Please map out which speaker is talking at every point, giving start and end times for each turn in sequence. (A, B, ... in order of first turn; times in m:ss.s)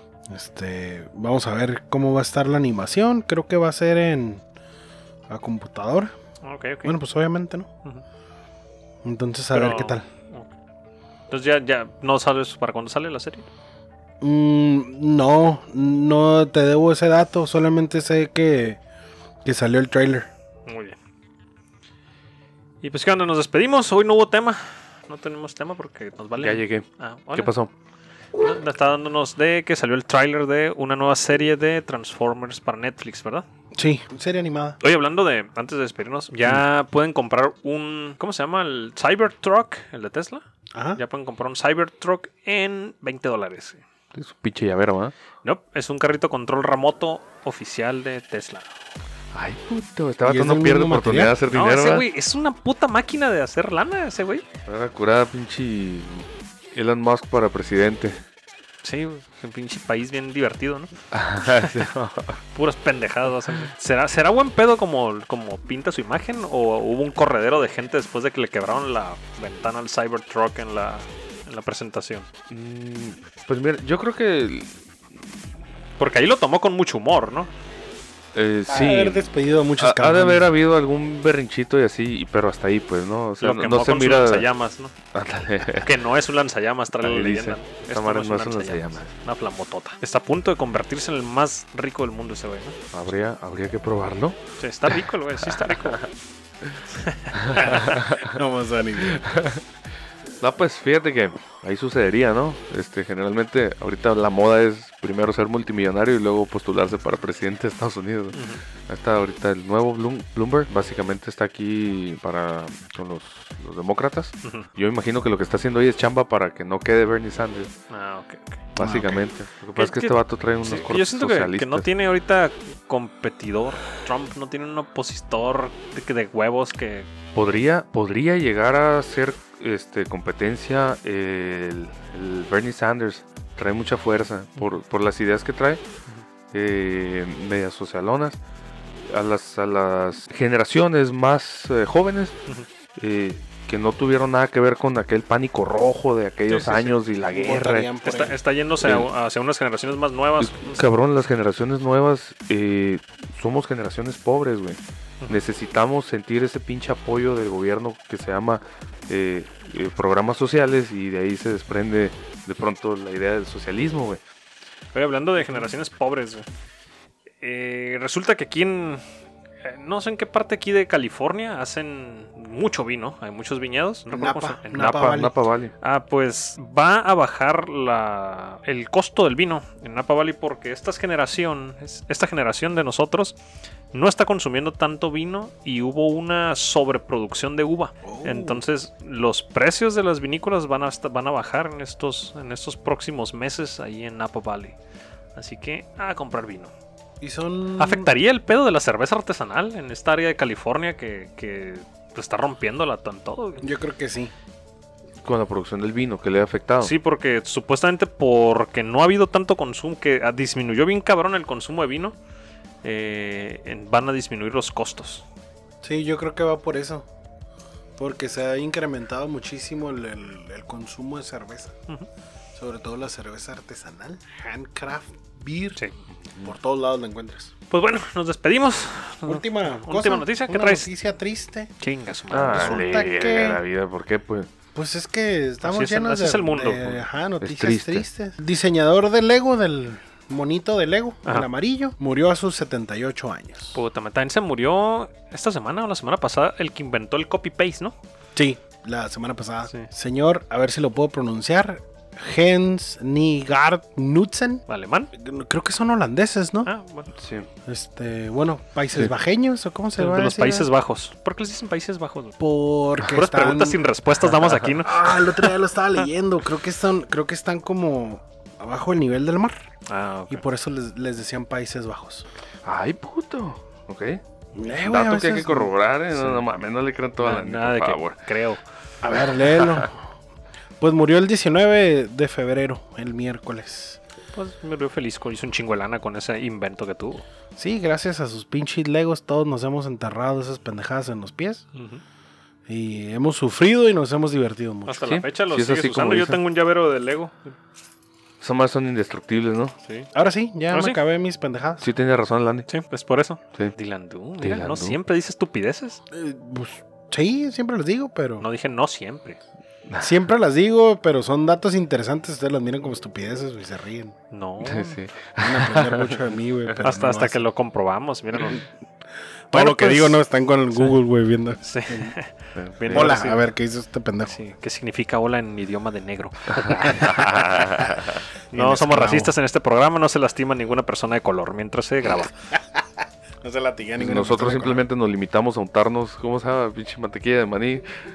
0:00.3-0:04.4 A
0:05.3-0:06.1 A
0:06.4-0:07.0 B
0:06.8-0:07.7 A
0:09.0-0:10.0 A
0:09.5-0:10.5 B
0:11.3-0:13.5 B
0:14.2-0:18.8 A
0:19.4-0:20.3 A
0:20.7-0:21.0 B
0:22.8-0:27.5 B
0:26.4-0:27.7 C
0:28.4-0:33.4 B
0:33.8-0:34.8 A
0:34.8-0:43.8 B
0:40.8-0:41.0 A
0:44.1-0:45.1 C
0:45.4-0:48.7 B
0:49.3-0:52.0 C
0:50.2-0:51.3 A
0:51.5-0:54.4 B
0:54.7-0:58.2 C
0:58.8-1:01.0 B
1:01.1-1:02.4 C
1:02.5-1:12.3 B
1:12.5-1:14.7 C
1:16.0-1:17.5 B
1:18.3-1:24.5 C
1:18.7-1:20.5 A
1:23.4-1:24.9 B
1:25.1-1:25.9 C
1:25.8-1:32.8 B
1:27.0-1:29.1 C
1:32.9-1:36.1 C
1:34.6-1:36.0 B
1:37.0-1:38.0 B
1:37.4-1:38.3 C
1:37.6-1:39.2 A
1:39.0-1:39.6 C
1:40.4-1:57.7 C
1:48.3-1:48.6 B
1:57.9-1:58.6 B
1:58.8-2:01.9 C
1:58.8-1:59.3 A
1:59.8-2:07.1 B
2:07.3-2:15.8 C
2:16.5-2:18.4 C
2:19.1-2:22.4 C
2:23.0-2:27.9 C
2:26.5-2:26.9 B
2:27.3-2:28.4 A
2:28.0-2:30.8 B
2:28.8-2:29.1 C
2:30.4-2:44.2 C
2:44.9-2:46.5 B
2:47.4-2:49.0 B
2:49.6-2:55.2 B
2:54.1-2:55.3 A
2:54.7-2:55.7 C
2:55.8-3:03.4 B
3:03.9-3:14.8 B
3:08.0-3:08.6 A
3:15.4-3:16.7 B
3:17.2-3:18.1 A
3:17.8-3:23.6 B
3:23.6-3:24.3 A
3:25.2-3:26.9 C
3:26.8-3:32.2 B
3:32.8-3:35.2 B
3:35.8-3:37.1 A
3:38.0-3:41.8 A
3:42.6-3:45.8 A
3:46.3-3:46.5 C
3:46.4-3:47.5 A
3:47.7-3:50.9 B
3:49.2-3:51.7 A
3:51.8-3:52.8 B
3:52.3-3:54.5 C
3:52.5-3:53.6 A
3:54.8-4:03.8 A
3:55.6-3:56.9 B
3:57.4-3:58.0 C
4:03.7-4:08.0 B
4:08.4-4:16.7 A
4:14.7-4:15.1 B
4:16.6-4:17.1 B
4:17.2-4:17.5 C
4:17.7-4:20.7 A
4:20.0-4:22.4 B
4:22.4-4:23.8 A
4:23.0-4:25.5 B
4:24.4-4:24.7 C
4:24.8-4:29.6 A
4:29.9-4:30.4 B
4:30.3-4:32.3 A
4:32.6-4:34.2 C
4:34.5-4:35.7 A
4:34.7-4:38.2 C
4:37.2-4:38.6 B
4:39.0-4:40.0 A
4:40.8-4:44.0 A
4:44.3-4:47.2 B
4:47.6-4:51.6 A
4:51.7-4:52.0 B
4:52.7-4:55.1 A
4:54.9-4:57.6 B
4:55.0-4:56.4 C
4:58.4-4:59.8 C
5:00.1-5:01.9 A
5:00.7-5:01.0 B
5:01.8-5:02.7 C
5:02.7-5:06.0 B
5:04.4-5:05.0 C
5:06.1-5:08.5 A
5:08.4-5:09.4 B
5:09.9-5:10.2 C
5:10.0-5:14.2 A
5:14.3-5:15.0 B
5:14.6-5:16.8 C
5:15.4-5:17.5 A
5:16.8-5:18.6 B
5:19.5-5:22.1 A
5:19.5-5:20.2 B
5:21.6-5:23.5 B
5:22.6-5:23.2 C
5:22.9-5:24.4 A
5:24.3-5:27.6 B
5:26.6-5:28.2 C
5:27.8-5:29.3 A
5:28.5-5:32.3 B
5:33.4-5:34.8 A
5:34.0-5:37.9 C